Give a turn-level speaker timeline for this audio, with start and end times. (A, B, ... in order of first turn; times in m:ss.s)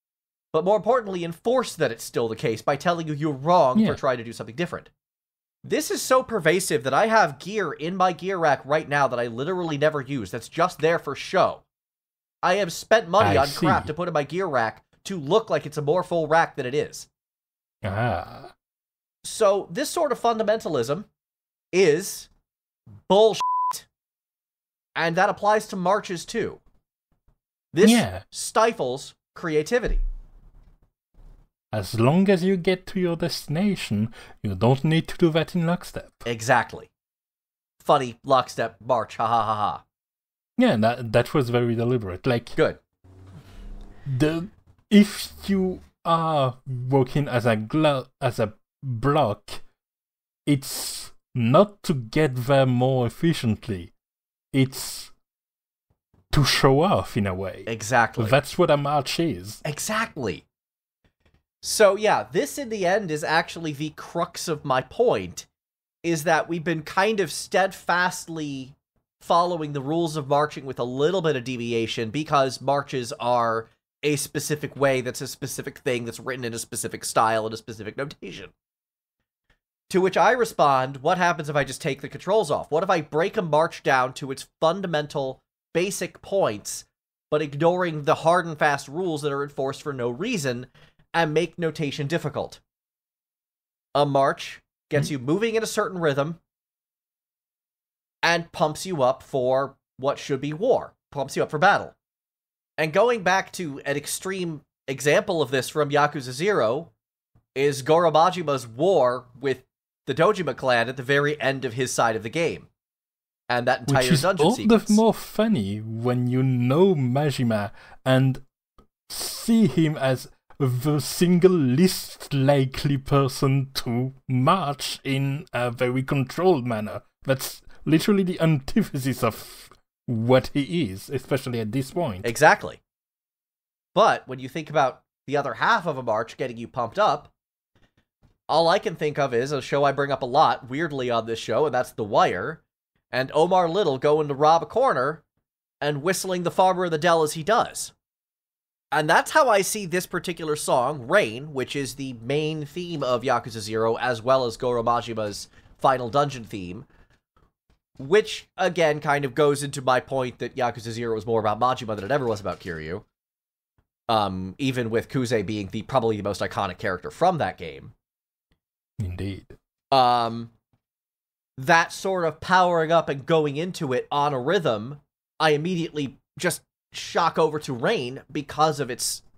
0:00.5-0:04.9 A
0:03.7-0:04.0 B
0:05.6-0:11.6 A
0:12.4-0:17.1 A
0:13.2-0:13.9 B
0:17.8-0:18.5 B
0:19.2-0:21.1 A
0:21.7-0:22.3 A
0:23.1-0:23.8 A
0:25.0-0:26.6 A
0:27.7-0:30.0 A
0:27.8-0:28.2 B
0:31.7-0:36.2 B
0:36.2-0:36.9 A
0:37.8-0:39.8 A
0:40.6-0:42.6 B
0:44.0-0:49.6 B
0:50.4-0:53.9 B
0:54.5-0:55.1 B
0:56.3-0:59.6 B
0:57.7-0:58.4 A
0:59.6-1:00.4 A
1:01.6-1:05.4 A
1:06.0-1:18.5 A
1:19.9-1:32.6 A
1:33.9-1:36.4 A
1:38.2-1:41.9 A
1:42.8-1:46.9 A
1:47.6-1:52.7 A
1:53.5-1:55.0 A
1:53.9-1:58.4 B
1:59.1-2:12.3 B
2:12.2-2:12.8 A
2:13.9-2:17.3 A
2:18.5-2:22.6 A
2:23.1-2:25.2 A
2:25.8-2:27.9 A
2:28.9-2:36.8 A
2:38.0-2:43.0 A
2:44.1-2:47.9 A
2:49.0-2:49.6 B
2:49.9-2:50.5 A
2:51.6-2:59.2 A